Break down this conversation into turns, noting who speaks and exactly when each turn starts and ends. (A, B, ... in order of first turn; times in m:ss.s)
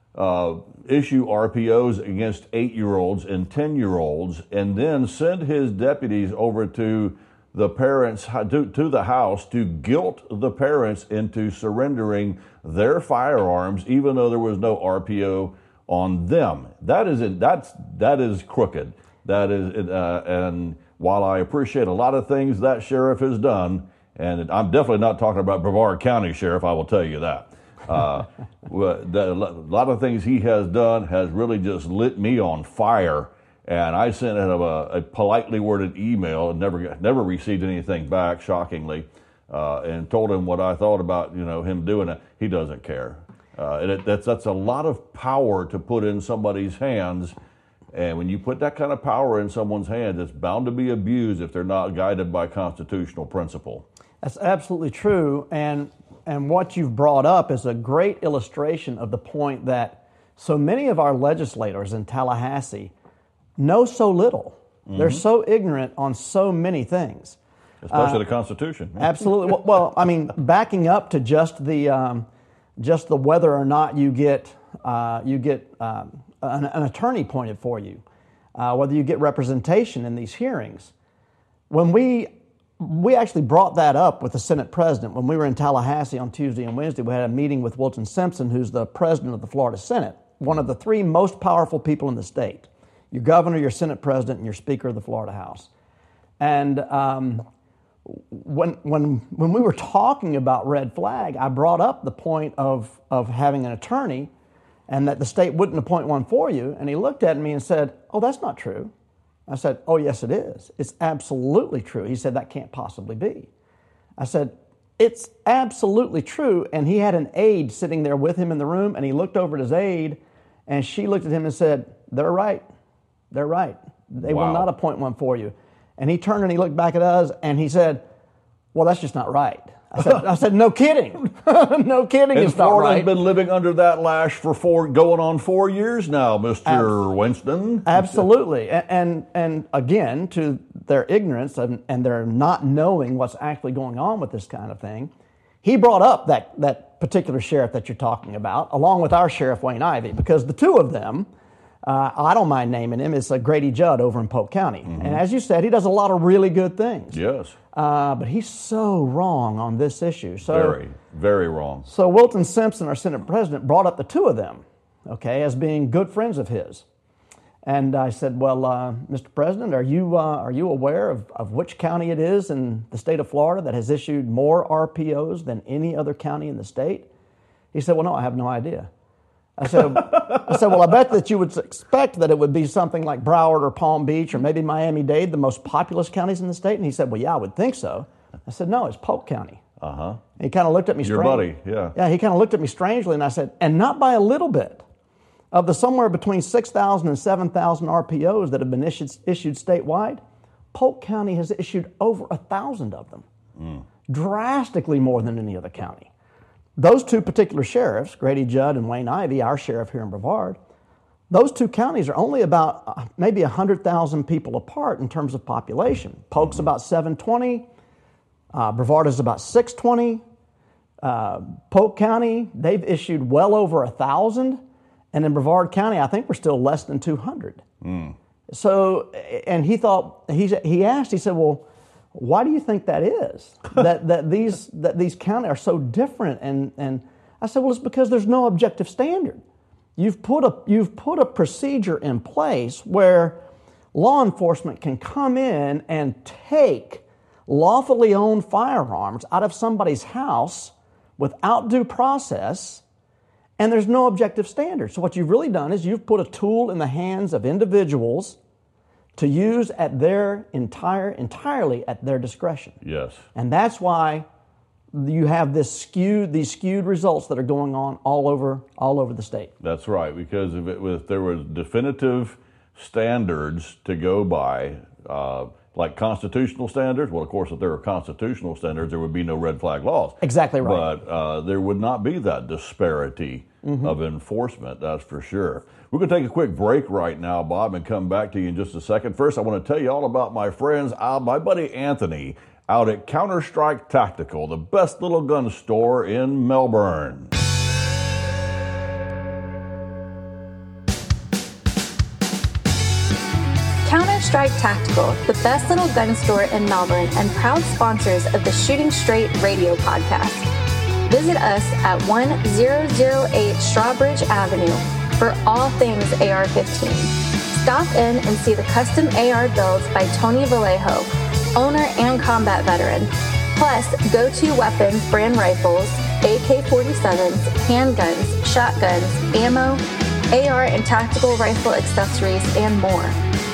0:00.2-0:47.4 A
0:47.9-0:53.8 A
0:54.2-1:02.9 B
1:03.6-1:07.4 B
1:04.9-1:05.2 A
1:07.8-1:09.6 A
1:07.9-1:08.2 B
1:09.0-1:12.3 B
1:12.8-1:18.0 B
1:18.6-1:20.9 B
1:21.7-1:35.7 B
1:36.4-1:37.4 B
1:38.1-1:44.3 B
1:44.9-1:48.9 B
1:49.5-1:53.5 B
1:54.2-2:02.6 B
2:03.3-2:08.0 B
2:04.2-2:04.7 A
2:08.7-2:13.1 B
2:12.4-2:18.2 A
2:16.7-2:16.9 B
2:17.9-2:25.1 B
2:25.6-2:31.3 B
2:31.8-2:37.2 B
2:34.9-2:35.2 A
2:37.1-2:37.6 A
2:37.7-2:40.8 B
2:40.5-2:41.9 A
2:41.9-2:46.8 B
2:47.6-2:57.1 B
2:57.7-2:58.9 B
2:59.6-3:09.6 B
3:09.8-3:10.2 A
3:10.4-3:14.8 B
3:11.0-3:12.0 A
3:15.5-3:20.2 B
3:20.7-3:23.3 B
3:24.1-3:26.1 B
3:26.8-3:30.6 B
3:31.3-3:37.7 B
3:38.5-3:40.2 B
3:41.0-3:44.6 B
3:45.1-3:47.6 B
3:47.8-3:48.2 A
3:48.5-3:59.4 B
4:00.0-4:03.4 B
4:03.9-4:12.8 B
4:13.6-4:18.4 B
4:19.2-4:22.8 B
4:22.8-4:23.2 A
4:23.4-4:24.3 B
4:24.9-4:29.5 B
4:29.6-4:57.3 A
4:40.2-4:40.9 B
4:43.6-4:43.9 B
5:03.8-5:10.5 C
5:11.1-5:33.2 C